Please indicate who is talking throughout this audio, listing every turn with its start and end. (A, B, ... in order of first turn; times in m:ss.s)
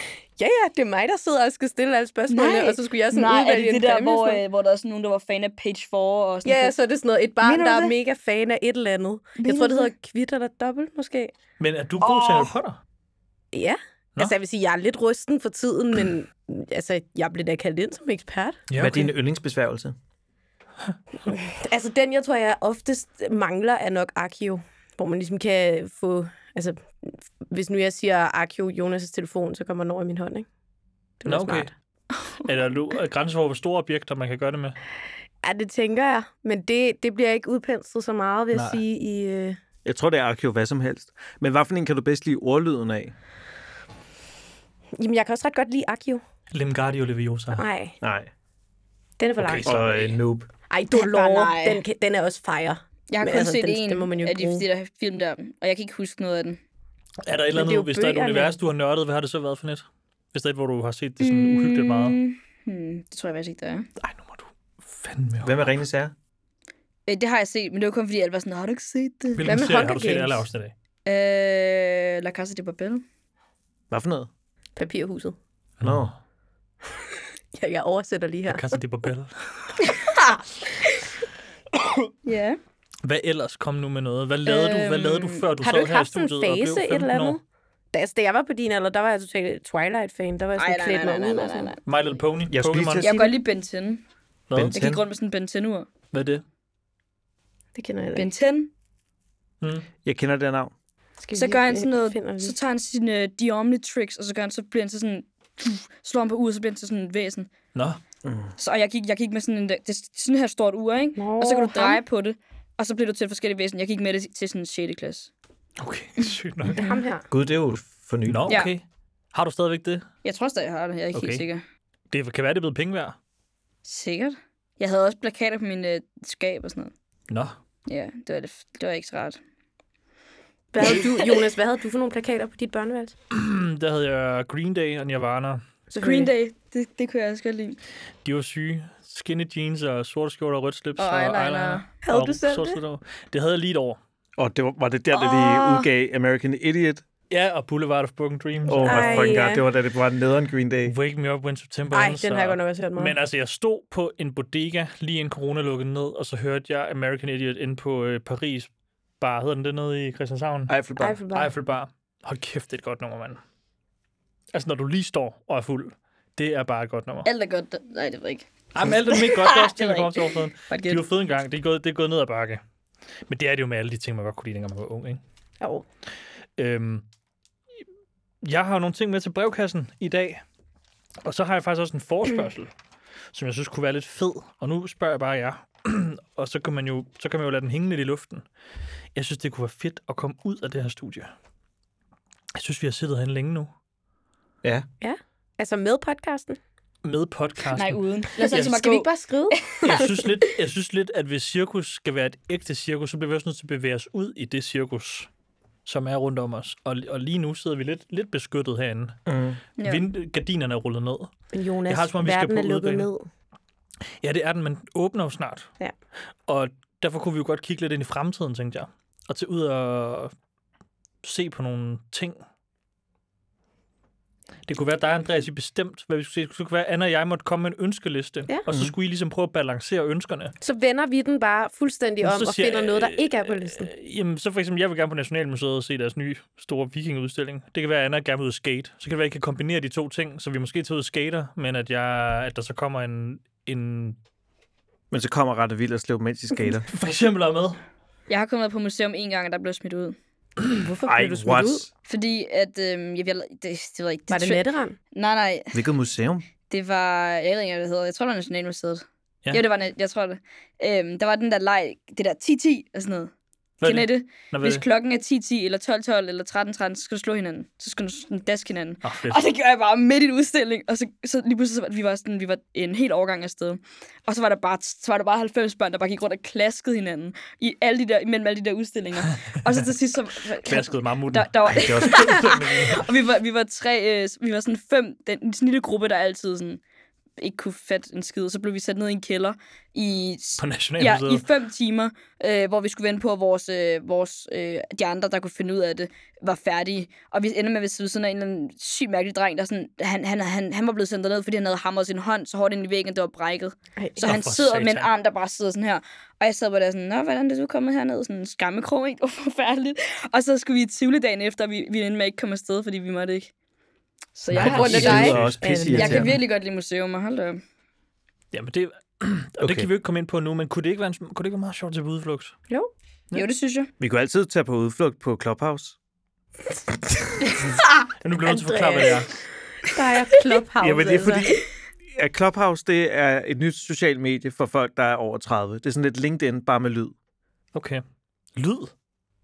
0:00.4-0:04.4 A
0:02.3-0:06.8 B
0:06.4-0:11.3 A
0:07.4-0:07.9 B
0:09.4-0:09.9 B
0:11.6-0:12.8 C
0:12.0-0:12.5 B
0:13.5-0:18.6 A
0:18.7-0:19.1 C
0:18.8-0:20.0 D
0:21.2-0:30.5 A
0:31.2-0:31.7 A
0:31.2-0:31.7 C
0:32.1-0:32.4 B
0:32.4-0:34.8 C
0:35.4-0:39.6 A
0:38.5-0:38.8 C
0:39.8-0:43.1 D
0:44.9-0:46.2 A
0:46.5-0:47.6 C
0:47.5-0:48.0 A
0:48.0-0:48.3 D
0:49.2-0:50.1 A
0:49.4-0:49.8 C
0:49.5-0:50.5 D
0:50.7-0:54.6 A
0:50.9-0:51.8 B
0:53.1-0:56.6 B
0:57.2-1:02.2 C
0:57.5-0:58.5 A
1:01.2-1:03.9 B
1:04.0-1:05.6 C
1:05.4-1:06.1 D
1:07.0-1:09.6 B
1:09.3-1:10.7 C
1:09.4-1:10.4 A
1:11.0-1:13.0 B
1:13.9-1:14.3 D
1:14.8-1:15.4 A
1:15.8-1:16.1 C
1:15.8-1:16.1 D
1:17.5-1:18.8 A
1:18.5-1:19.8 C
1:19.8-1:21.0 B
1:22.2-1:22.6 B
1:23.0-1:27.4 C
1:24.4-1:25.4 B
1:25.6-1:27.4 A
1:27.9-1:31.7 A
1:30.6-1:31.8 B
1:31.8-1:33.0 C
1:32.5-1:33.1 D
1:33.0-1:34.0 B
1:33.0-1:33.4 A
1:34.5-1:34.8 C
1:34.5-1:35.0 D
1:34.7-1:35.9 B
1:36.1-1:36.4 C
1:37.7-1:38.3 A
1:38.2-1:38.7 B
1:39.6-1:39.9 C
1:40.0-1:40.7 D
1:41.2-1:42.5 A
1:41.3-1:47.5 B
1:47.7-1:48.0 C
1:48.2-1:48.5 D
1:48.6-1:55.3 B
1:51.2-1:52.0 A
1:55.8-1:56.8 C
1:56.7-1:57.0 B
1:56.8-1:57.2 A
1:57.3-1:58.5 D
1:58.2-2:00.0 C
2:00.2-2:01.6 B
2:01.1-2:01.4 C
2:02.1-2:03.2 C
2:03.8-2:06.9 B
2:07.3-2:07.5 C
2:07.9-2:09.4 B
2:10.7-2:13.1 A
2:10.8-2:11.3 B
2:13.3-2:15.6 C
2:15.9-2:17.8 B
2:16.0-2:16.3 A
2:18.2-2:24.0 C
2:21.0-2:21.8 B
2:22.0-2:22.8 A
2:24.4-2:27.0 D
2:25.2-2:25.8 A
2:27.3-2:29.4 C
2:28.6-2:30.9 D
2:28.8-2:29.6 A
2:30.8-2:38.7 C
2:31.9-2:33.2 A
2:39.2-2:40.7 C
2:40.7-2:41.2 D
2:41.0-2:41.5 A
2:41.3-2:43.4 C
2:44.5-2:47.3 C
2:47.2-2:48.5 B
2:48.7-2:52.6 C
2:49.1-2:51.0 B
2:53.3-2:55.2 C
2:56.6-2:57.0 C
2:58.4-3:00.4 C
3:01.2-3:02.7 C
3:03.3-3:08.4 C
3:09.1-3:11.3 C
3:12.5-3:13.7 C
3:15.0-3:16.6 A
3:17.0-3:18.7 C
3:17.7-3:20.2 B
3:18.4-3:20.1 A
3:19.8-3:25.3 C
3:25.8-3:29.2 C
3:29.2-3:29.6 D
3:29.8-3:30.0 B
3:29.8-3:31.3 C
3:31.5-3:33.3 A
3:31.9-3:33.0 C
3:34.2-3:35.7 C
3:36.5-3:40.3 C
3:41.2-3:42.4 C
3:44.7-3:50.5 C
3:48.7-3:48.9 D
3:50.6-3:53.9 A
3:52.2-4:04.2 C
4:05.1-4:06.9 D
4:06.9-4:07.8 C
4:08.3-4:10.2 B
4:10.7-4:11.8 A
4:11.0-4:11.9 D
4:12.0-4:15.8 B
4:14.3-4:15.0 A
4:15.7-4:16.4 D
4:16.7-4:46.8 B
4:23.8-4:24.8 C
4:29.0-4:29.4 C
4:40.6-4:43.1 C
4:41.7-4:42.2 D
4:47.4-5:13.5 B
4:50.6-4:51.4 C
5:04.0-5:04.2 A
5:04.2-5:05.1 C
5:14.3-5:15.4 B
5:14.5-5:15.5 C
5:14.6-5:16.3 A
5:14.6-5:16.4 D
5:15.9-5:17.6 B
5:18.5-5:22.5 C
5:19.6-5:19.9 D
5:23.3-5:23.9 B
5:24.0-5:26.0 D
5:28.2-5:29.3 C
5:28.4-5:29.2 A
5:29.8-5:31.5 A
5:30.8-5:37.1 D
5:37.7-5:38.0 C
5:38.6-5:38.9 C